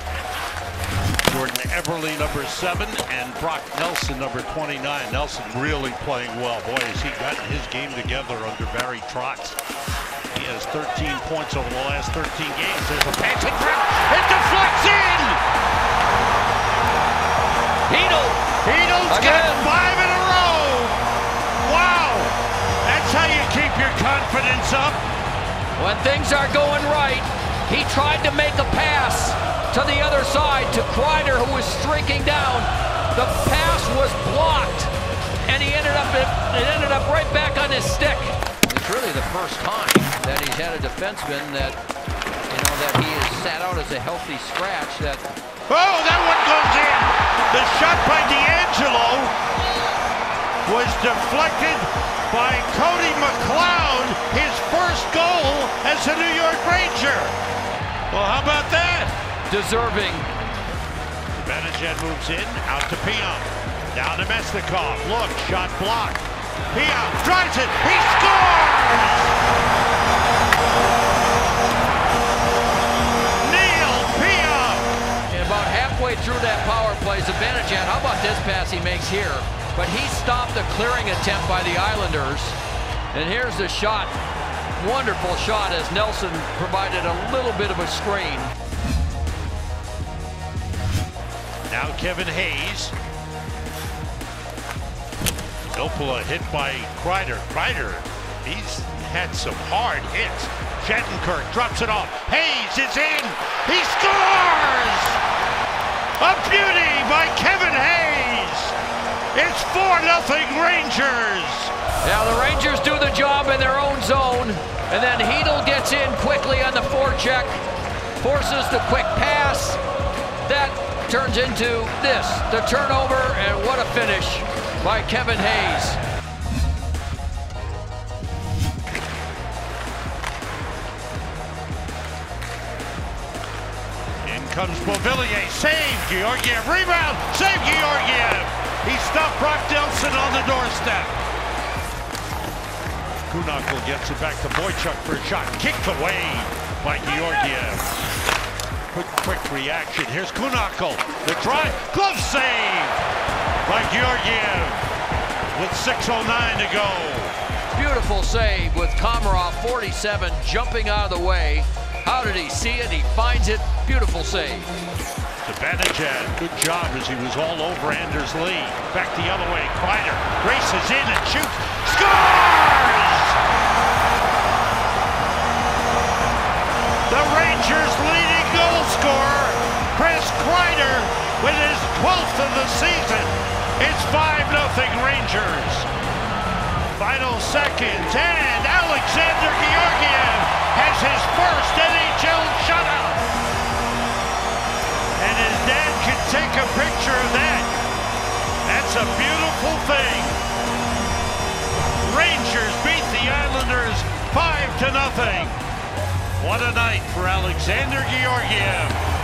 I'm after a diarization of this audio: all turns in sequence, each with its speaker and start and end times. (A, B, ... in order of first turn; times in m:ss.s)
0:01.2-0:09.6 A
0:10.3-0:15.4 A
0:17.9-0:18.4 B
0:18.5-0:21.0 A
0:19.1-0:19.7 B
0:21.6-0:25.0 A
0:25.8-0:34.9 B
0:35.5-0:41.8 B
0:42.5-0:45.3 B
0:45.7-0:49.3 A
0:50.7-0:57.4 A
0:58.1-0:59.1 A
0:59.5-1:00.3 B
1:01.4-1:09.3 A
1:13.4-1:14.9 A
1:15.3-1:22.6 B
1:23.1-1:24.1 B
1:24.8-1:28.5 B
1:31.7-1:32.9 A
1:35.7-1:45.2 A
1:46.2-1:48.8 A
1:49.3-1:51.7 A
1:52.0-1:57.6 B
1:58.2-1:59.8 B
2:00.4-2:06.0 B
2:14.2-2:21.2 A
2:23.2-2:27.9 A
2:28.9-2:33.0 A
2:33.6-2:34.9 A
2:35.5-2:37.4 A
2:37.7-2:44.7 B
2:45.4-2:53.4 A
2:57.1-3:05.9 A
3:07.0-3:13.3 A
3:15.2-3:17.7 A
3:18.6-3:20.4 A
3:22.0-3:25.6 A
3:26.4-3:29.0 A